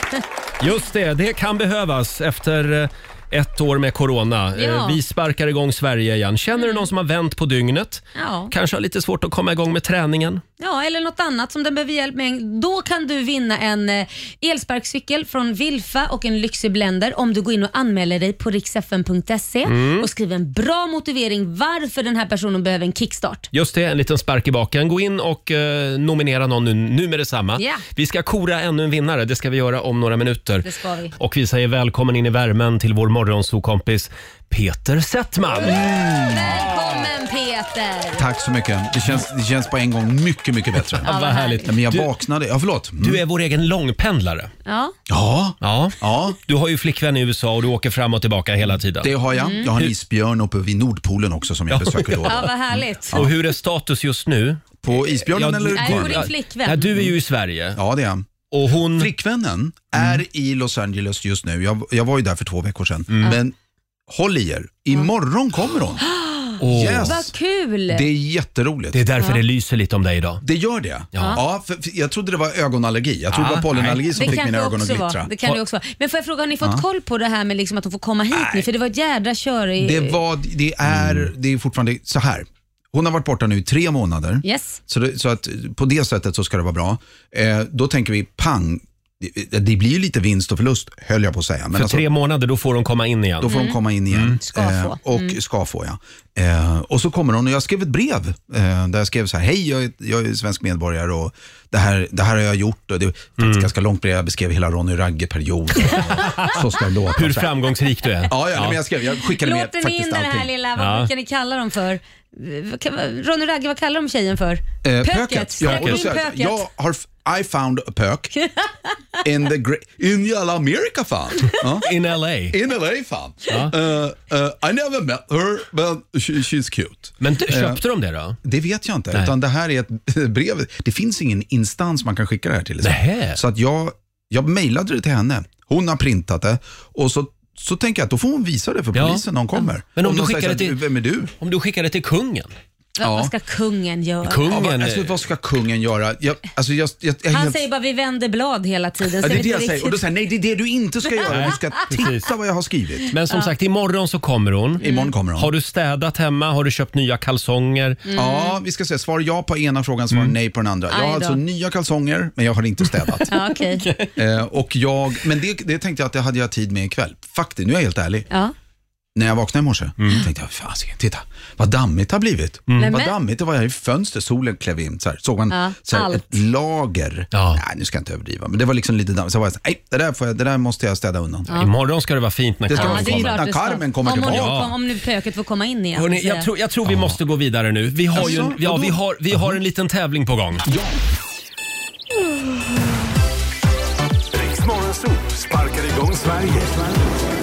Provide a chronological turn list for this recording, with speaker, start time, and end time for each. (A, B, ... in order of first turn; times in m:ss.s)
0:00.6-0:10.4 A
0:04.6-0:05.0 B
0:06.5-0:06.9 B
0:08.2-0:08.5 B
0:10.6-0:23.5 B
0:19.6-0:20.1 A
0:23.5-0:30.6 A
0:27.6-0:27.8 B
0:30.6-0:31.1 B
0:31.2-0:35.9 A
0:35.6-0:36.7 C
0:35.6-0:38.2 B
0:38.2-0:41.1 C
0:41.0-0:42.1 A
0:41.0-0:41.7 B
0:41.6-0:43.2 C
0:43.0-0:44.5 A
0:44.6-0:44.9 B
0:45.1-0:46.4 C
0:45.6-0:49.1 A
0:49.0-0:52.5 C
0:49.3-0:49.7 B
0:51.7-0:52.5 A
0:52.2-0:53.2 B
0:53.1-0:57.8 A
0:54.8-0:56.3 C
0:55.7-0:56.9 B
0:57.7-0:58.2 C
0:58.5-0:59.1 A
0:58.9-1:03.5 C
1:03.1-1:03.4 A
1:04.1-1:06.0 C
1:06.1-1:08.0 B
1:06.6-1:07.2 A
1:06.6-1:07.3 C
1:07.9-1:09.0 C
1:08.9-1:10.4 A
1:10.4-1:15.3 C
1:11.1-1:11.4 A
1:13.3-1:14.4 A
1:14.1-1:20.2 B
1:18.3-1:18.7 C
1:19.8-1:32.1 C
1:20.9-1:21.3 A
1:24.4-1:24.8 B
1:31.7-1:33.5 A
1:33.4-1:47.6 C
1:33.5-1:33.8 B
1:34.1-1:34.4 A
1:34.4-1:35.4 B
1:43.4-1:43.7 A
1:45.9-1:46.6 A
1:47.1-1:48.8 A
1:48.3-1:50.5 C
1:49.4-1:56.6 B
1:50.8-1:51.1 A
1:54.8-1:58.3 C
1:55.6-1:56.0 A
1:58.4-1:58.9 B
1:59.2-2:01.9 C
2:01.8-2:02.6 A
2:02.5-2:07.8 C
2:03.5-2:03.7 A
2:07.2-2:08.4 A
2:08.4-2:21.3 C
2:12.8-2:13.4 A
2:18.9-2:19.2 A
2:19.9-2:20.8 A
2:21.4-2:22.5 A
2:23.0-2:24.4 B
2:23.0-2:23.3 C
2:24.2-2:25.2 A
2:24.5-2:27.6 C
2:27.3-2:30.0 B
2:29.1-2:33.1 C
2:31.3-2:32.3 A
2:31.4-2:31.6 B
2:33.1-2:38.0 A
2:34.8-2:35.1 B
2:34.8-2:35.5 C
2:38.1-2:38.6 B
2:38.1-2:43.3 C
2:40.9-2:41.4 B
2:43.3-2:43.9 B
2:43.8-2:44.1 A
2:44.2-2:48.3 C
2:49.2-3:01.6 C
2:50.0-2:50.2 A
2:52.7-2:52.9 A
2:52.8-2:53.1 B
2:55.5-2:56.4 B
2:57.3-2:57.6 A
3:01.5-3:03.4 A
3:02.7-3:04.7 C
3:02.7-3:06.5 B
3:04.2-3:04.7 A
3:06.0-3:10.6 A
3:06.8-3:07.2 C
3:08.1-3:09.6 C
3:10.6-3:11.0 C
3:14.3-3:17.0 D